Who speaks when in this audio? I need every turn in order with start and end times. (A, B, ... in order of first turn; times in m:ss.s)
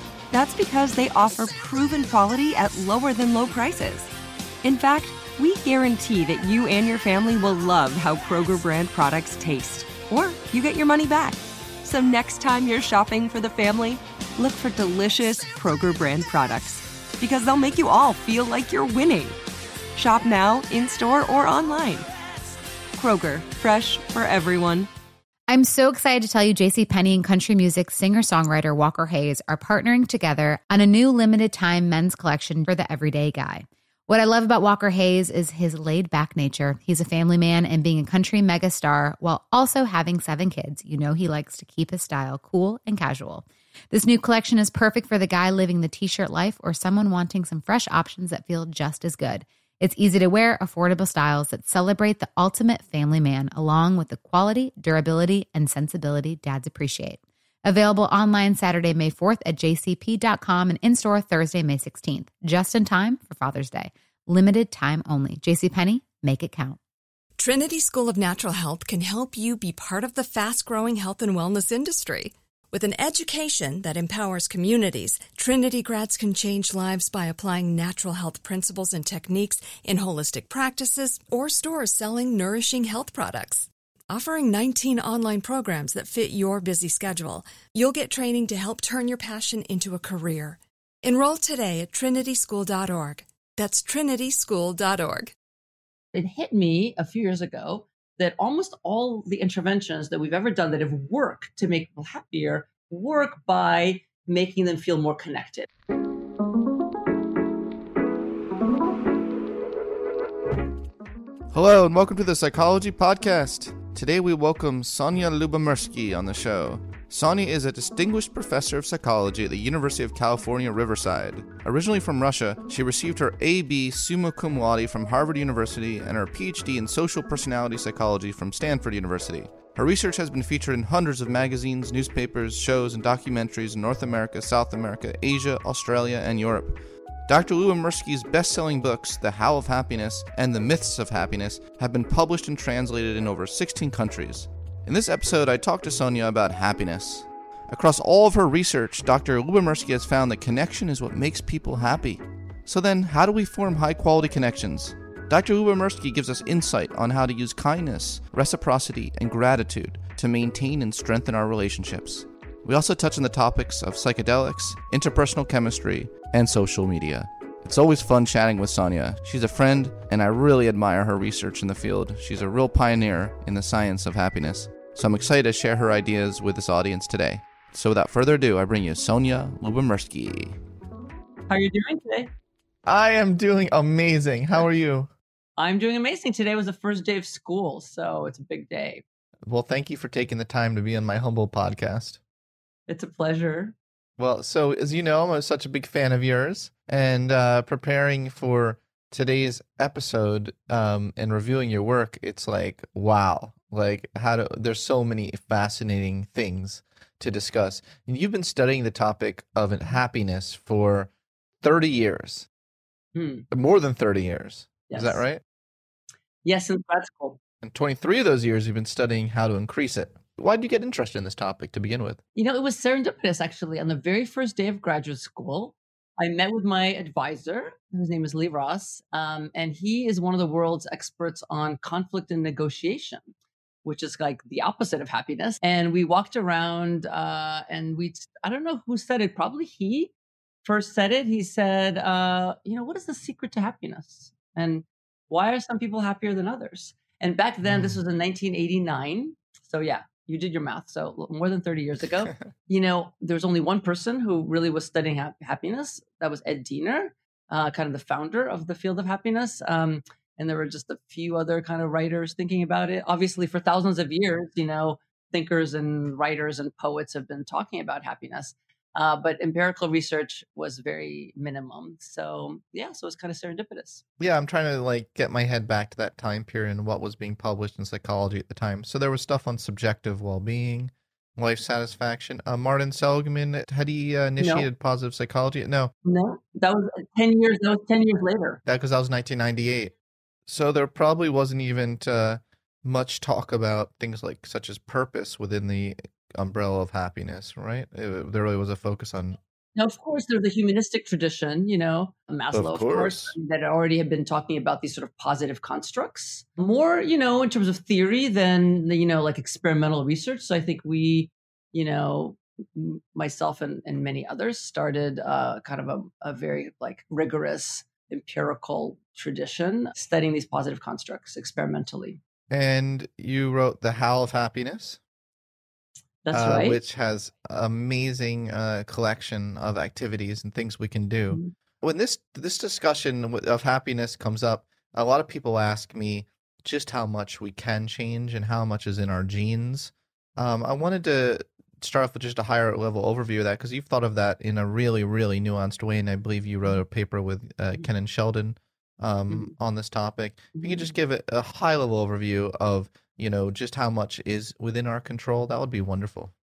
0:00.3-0:04.1 A
0:04.6-0:19.4 A
0:19.9-0:22.1 A
0:22.9-0:24.9 A
0:25.5-1:06.8 B
1:07.4-1:35.3 C
1:36.1-1:45.7 D
1:51.5-3:00.6 E
3:01.5-3:02.3 D
3:02.8-3:05.1 E
3:05.6-3:09.0 D
3:09.4-3:12.2 E
3:12.9-3:13.8 D
3:14.2-3:31.1 E
3:31.6-3:32.5 E
3:33.1-3:33.5 D
3:33.5-3:35.4 E
3:34.9-3:35.2 D
3:36.4-3:37.4 D
3:37.6-3:42.2 E
3:42.4-4:00.1 D
4:00.6-4:34.0 D
4:07.6-4:08.0 E
4:34.2-4:45.9 E
4:44.4-4:44.7 D
4:46.0-4:48.6 D
4:48.6-4:49.9 E
4:50.5-4:59.4 E
4:59.8-5:22.2 D
5:02.5-5:03.3 E
5:22.5-5:25.0 E
5:26.2-5:26.8 D
5:26.3-5:56.3 E
5:50.6-5:50.9 D